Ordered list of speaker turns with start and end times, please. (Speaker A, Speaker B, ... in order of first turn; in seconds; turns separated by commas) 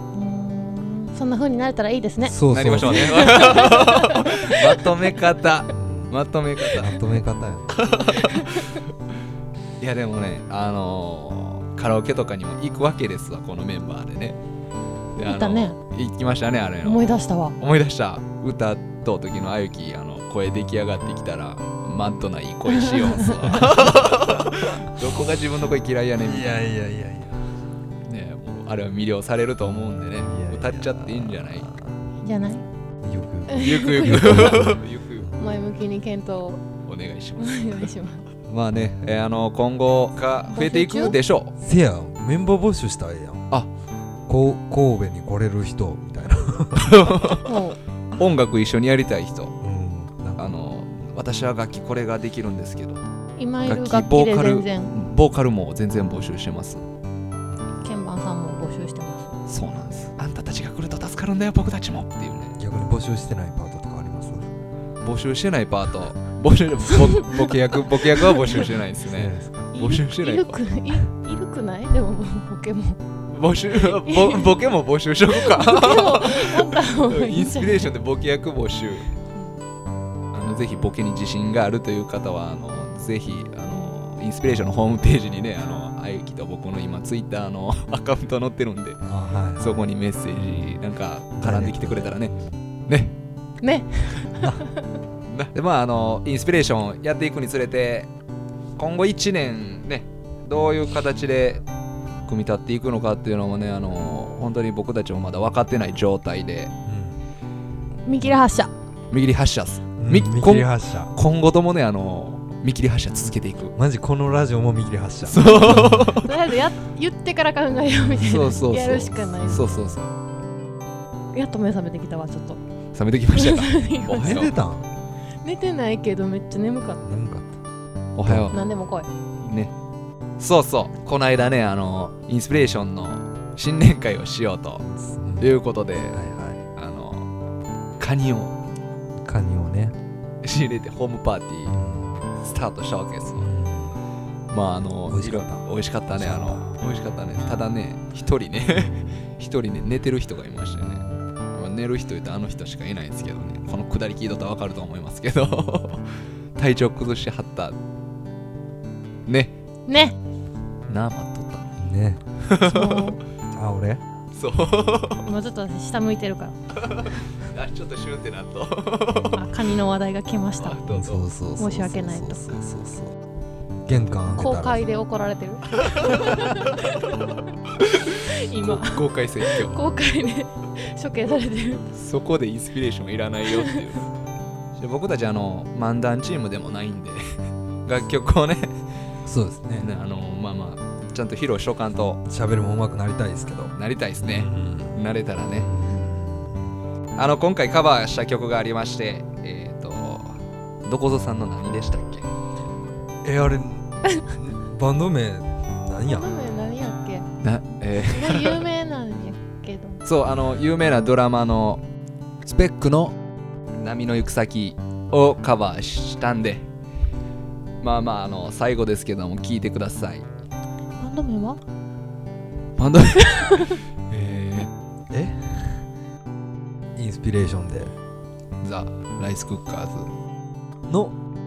Speaker A: 0.1-4.7, Speaker B: 2.2-3.4, Speaker C: 2.5-7.0, Speaker B: 5.7-7.7, Speaker C: 7.7-8.9, Speaker C: 9.8-14.4, Speaker C: 15.2-26.6, Speaker A: 15.2-15.8, Speaker A: 16.8-17.6, Speaker A: 22.9-23.5, Speaker B: 26.2-27.4, Speaker C: 28.1-31.7, Speaker B: 30.2-32.0, Speaker A: 32.2-32.6, Speaker B: 33.0-35.6, Speaker A: 33.5-34.7, Speaker C: 33.5-35.3, Speaker A: 35.4-36.6, Speaker C: 36.9-37.9, Speaker A: 37.4-38.2, Speaker C: 38.5-41.5, Speaker A: 40.5-41.2, Speaker B: 41.6-43.5, Speaker B: 44.3-47.1, Speaker C: 46.8-47.5, Speaker A: 47.5-47.8, Speaker C: 48.2-49.5, Speaker B: 49.6-50.5, Speaker C: 50.4-53.0, Speaker A: 53.4-55.0, Speaker C: 53.6-56.8, Speaker A: 57.8-59.3, Speaker C: 59.5-62.5, Speaker B: 62.6-64.5, Speaker C: 65.0-70.6, Speaker B: 69.1-69.7, Speaker A: 69.7-73.0, Speaker C: 73.3-79.1, Speaker A: 73.7-74.6, Speaker A: 75.3-77.9, Speaker C: 80.3-89.0, Speaker B: 89.0-89.9, Speaker C: 89.6-92.3, Speaker B: 91.4-92.5, Speaker C: 92.9-93.1, Speaker A: 93.6-94.9, Speaker C: 95.3-98.1, Speaker C: 98.8-101.6, Speaker C: 102.3-106.7, Speaker B: 106.9-107.2, Speaker A: 108.1-108.7, Speaker C: 109.1-113.7, Speaker B: 110.0-111.1, Speaker B: 113.8-116.2, Speaker C: 115.3-116.3, Speaker A: 115.5-119.6, Speaker C: 118.2-120.1, Speaker B: 119.4-120.0, Speaker A: 121.3-122.6, Speaker C: 122.9-124.6, Speaker A: 123.3-124.5, Speaker B: 124.1-124.9, Speaker A: 125.4-127.1, Speaker B: 127.0-127.6, Speaker C: 128.2-128.6, Speaker B: 128.2-128.5, Speaker A: 128.5-129.1, Speaker C: 129.4-129.7, Speaker C: 130.4-134.8, Speaker B: 134.9-136.6, Speaker C: 135.4-136.2, Speaker C: 136.8-137.3, Speaker C: 138.0-138.5, Speaker B: 139.2-139.9, Speaker C: 140.4-141.8, Speaker B: 141.7-142.2, Speaker C: 142.4-143.5, Speaker B: 143.4-144.0, Speaker C: 144.5-156.1, Speaker B: 145.1-146.7, Speaker B: 148.7-149.2, Speaker B: 150.6-151.0, Speaker C: 156.6-157.8, Speaker C: 159.3-159.6, Speaker A: 159.9-160.2, Speaker C: 160.9-161.7, Speaker B: 161.8-162.2, Speaker C: 162.5-163.0, Speaker A: 162.6-163.2, Speaker B: 163.6-164.0, Speaker C: 164.3-165.3, Speaker A: 165.2-166.5, Speaker C: 166.7-169.5, Speaker A: 169.3-170.8, Speaker C: 170.6-171.3, Speaker B: 170.9-173.1, Speaker A: 171.6-172.5, Speaker B: 173.8-174.8, Speaker A: 174.3-177.3, Speaker C: 175.7-179.8, Speaker A: 178.2-181.9, Speaker C: 181.9-184.1, Speaker C: 184.8-187.2, Speaker C: 187.9-188.7, Speaker B: 189.3-189.9, Speaker C: 189.8-192.2, Speaker B: 192.3-196.8, Speaker C: 193.7-195.7, Speaker C: 197.2-202.3, Speaker B: 203.2-206.3, Speaker A: 206.0-207.3, Speaker C: 207.4-208.6, Speaker A: 208.0-210.0, Speaker C: 210.1-211.8, Speaker C: 212.4-213.1, Speaker C: 213.8-216.7, Speaker C: 217.8-220.3, Speaker A: 221.0-221.6, Speaker C: 222.8-224.7, Speaker B: 225.1-225.8, Speaker B: 227.0-227.9, Speaker C: 228.6-230.1, Speaker B: 230.9-231.2